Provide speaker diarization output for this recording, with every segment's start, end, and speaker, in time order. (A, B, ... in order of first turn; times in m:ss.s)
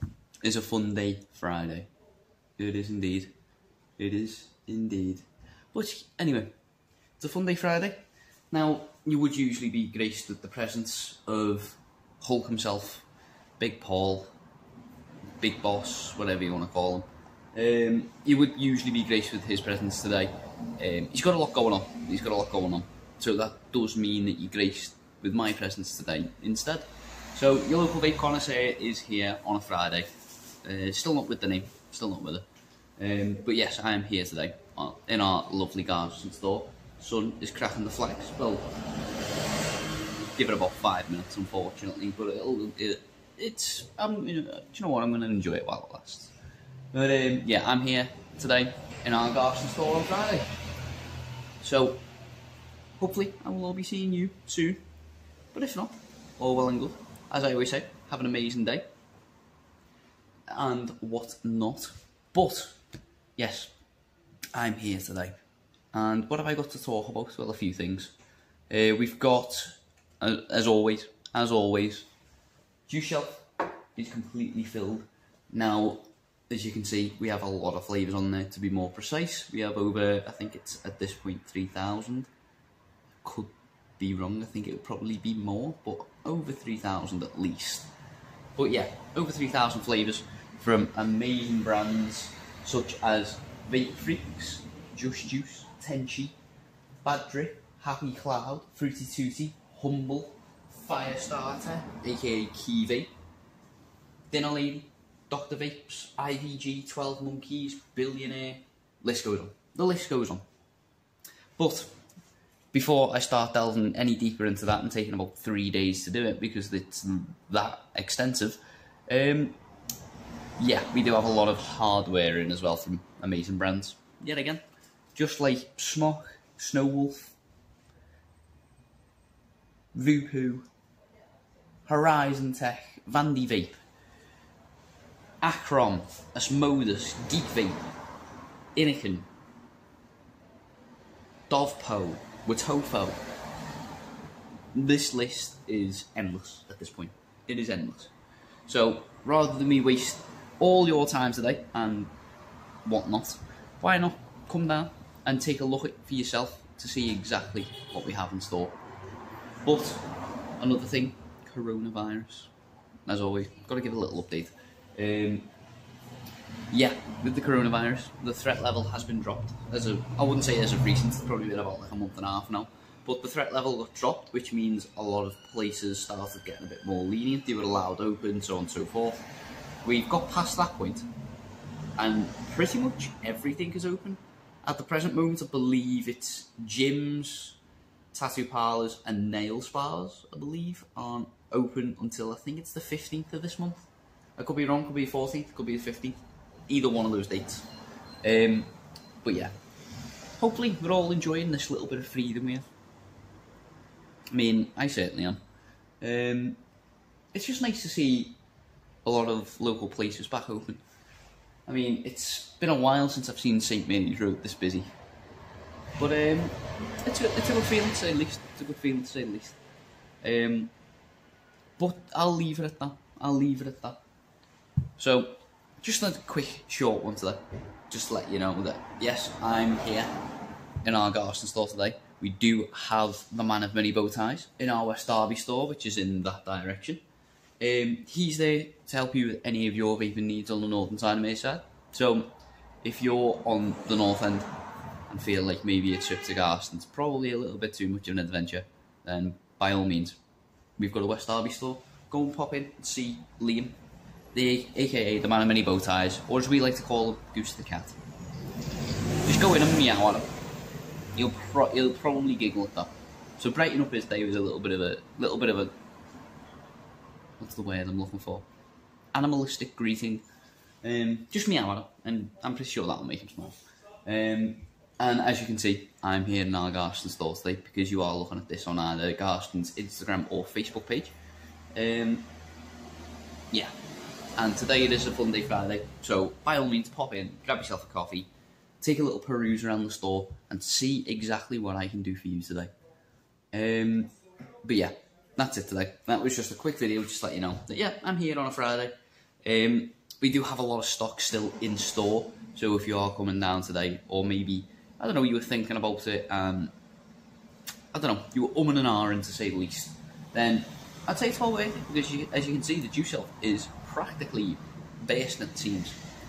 0:00.4-0:01.9 A
0:02.6-0:03.3 A
0:04.0-0:06.5 A
0:07.2-0:13.0 A
0:13.6-0:14.3 A
0:15.4-0:30.1 A
0:30.6-0:32.4 A
0:33.0-0:38.7 A
0:40.4-0:46.3 A
0:46.9-0:50.5 A
0:51.6-0:52.0 A
0:53.0-0:54.8 A
0:55.5-0:58.8 A
1:00.5-1:02.8 A
1:03.4-1:03.7 A
1:04.5-1:05.4 A
1:05.9-1:08.1 A
1:08.7-1:12.1 A
1:12.9-1:22.3 A
1:23.2-1:27.9 A
1:28.6-1:36.4 A
1:37.0-1:43.1 A
1:44.3-1:50.4 A
1:51.6-1:51.9 A
1:52.7-1:59.6 A
2:00.6-2:04.6 A
2:05.1-2:07.4 A
2:09.9-2:10.7 A
2:11.9-2:13.8 A
2:15.4-2:17.8 A
2:18.7-2:19.3 A
2:21.5-2:23.2 A
2:24.7-2:28.1 A
2:28.7-2:32.1 A
2:32.8-2:38.8 A
2:39.6-2:40.1 A
2:40.6-2:42.5 A
2:43.1-2:45.5 A
2:46.7-2:59.3 A
2:59.8-3:01.0 A
3:02.0-3:07.6 A
3:08.1-3:17.6 A
3:18.2-3:18.7 A
3:19.2-3:19.5 A
3:20.4-3:22.7 A
3:24.3-3:25.4 A
3:26.0-3:26.6 A
3:27.3-3:28.4 A
3:29.0-3:30.8 A
3:31.6-3:34.9 A
3:36.0-3:39.6 A
3:40.2-3:40.7 A
3:41.8-3:44.0 A
3:45.0-3:50.1 A
3:50.8-3:57.0 A
3:57.6-4:04.5 A
4:05.1-4:10.2 A
4:10.8-4:13.8 A
4:14.3-4:18.0 A
4:19.2-4:20.3 A
4:21.1-4:25.8 A
4:27.4-4:28.4 A
4:29.1-4:30.2 A
4:30.8-4:41.1 A
4:41.7-4:42.3 A
4:44.4-4:48.3 A
4:48.8-4:52.7 A
4:53.5-4:58.9 A
4:59.4-5:06.7 A
5:07.9-5:16.0 A